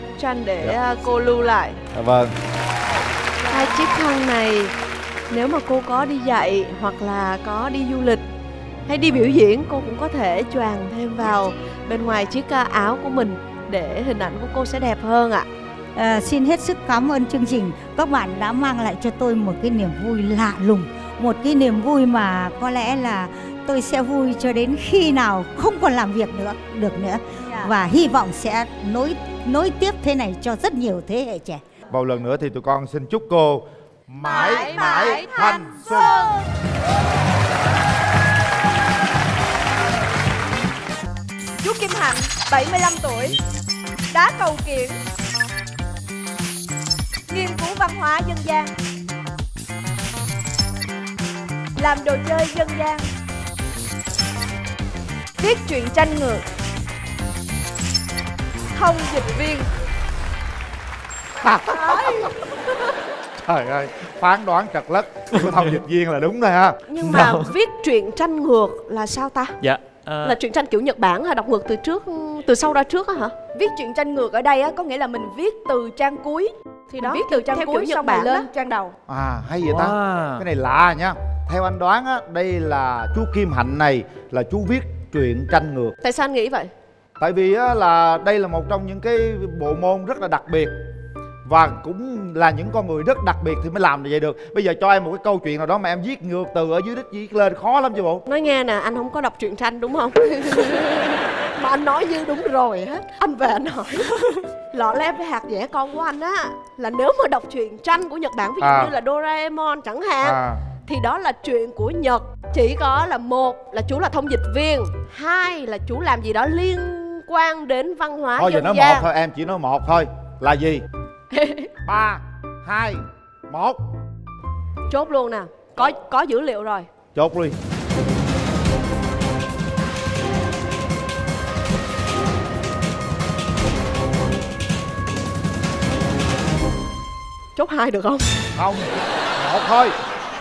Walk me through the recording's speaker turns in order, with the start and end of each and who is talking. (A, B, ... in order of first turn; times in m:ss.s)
0:00.2-0:01.8 A
0:01.9-0:02.3 B
0:03.4-0:03.8 C
0:03.5-0:04.7 A
0:05.3-0:08.2 A
0:08.9-0:15.5 A
0:16.0-0:31.6 D
0:27.5-0:27.7 C
0:31.9-0:36.2 B
0:34.2-0:36.3 C
0:34.3-0:35.3 A
0:41.6-0:43.4 C
0:44.1-0:45.0 C
0:47.3-0:48.7 C
0:51.8-0:53.1 C
0:55.4-0:56.4 C
0:58.8-0:59.7 C
1:01.4-1:02.3 B
1:01.7-1:02.3 C
1:03.5-1:06.8 B
1:05.4-1:05.8 E
1:06.9-1:09.6 A
1:07.1-1:07.5 E
1:09.6-1:10.4 E
1:10.2-1:13.4 A
1:13.5-1:18.9 C
1:16.9-1:18.5 A
1:19.1-1:25.9 B
1:19.7-1:20.5 E
1:26.0-1:26.7 A
1:27.2-1:30.7 B
1:31.5-1:38.2 B
1:38.3-1:44.2 A
1:44.7-1:59.1 A
1:48.6-1:48.9 B
1:50.2-1:50.6 B
1:58.4-2:00.8 B
2:01.3-2:01.7 C
2:01.8-2:03.8 B
2:04.9-2:06.9 A
2:07.2-2:07.6 B
2:17.6-2:18.3 A
2:18.6-2:19.9 B